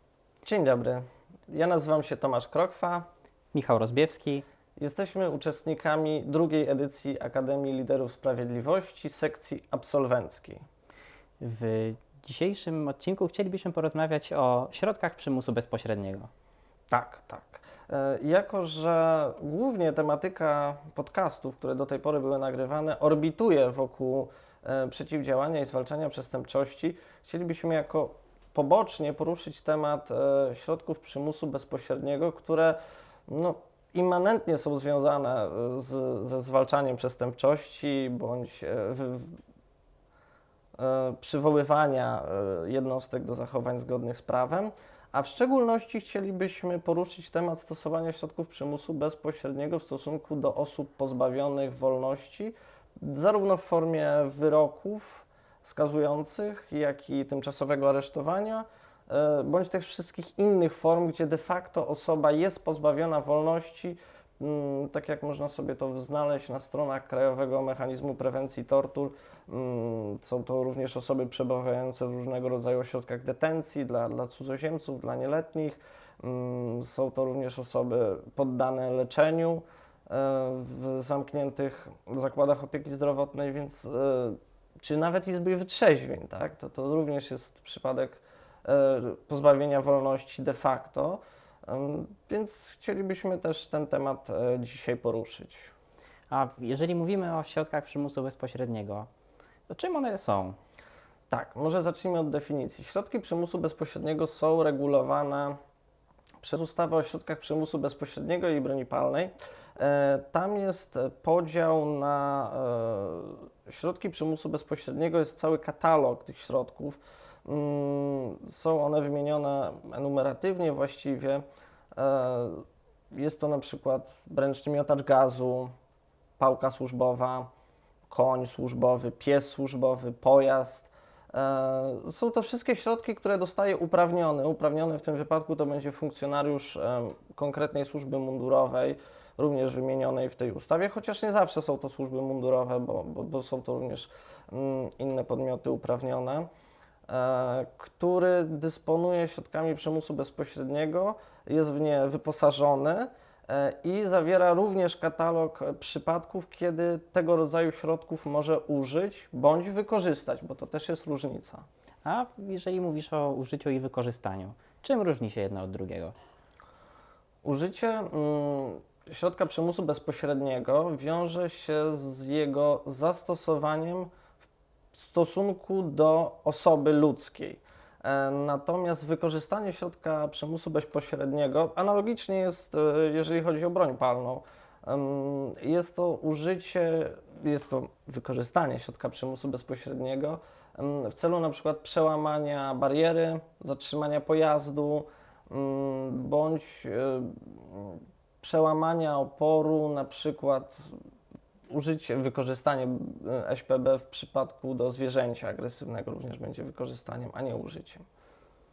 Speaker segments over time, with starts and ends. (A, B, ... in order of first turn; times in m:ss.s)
0:00.4-0:03.1 A
0:03.5-0:04.4 B
0:04.8-0:10.6 A
0:11.4-0:16.3 B
0:16.9-0:39.4 A
0:40.8-1:35.7 A
1:36.3-1:39.1 B
1:39.7-1:40.6 B
1:41.3-1:45.6 A
1:46.4-2:01.4 A
2:02.0-2:05.7 A
2:06.4-2:07.5 A
2:08.1-2:26.5 A
2:27.1-2:41.6 A
2:42.0-2:46.2 B
2:47.4-2:54.1 A
2:54.9-3:20.9 A
3:21.7-3:28.0 A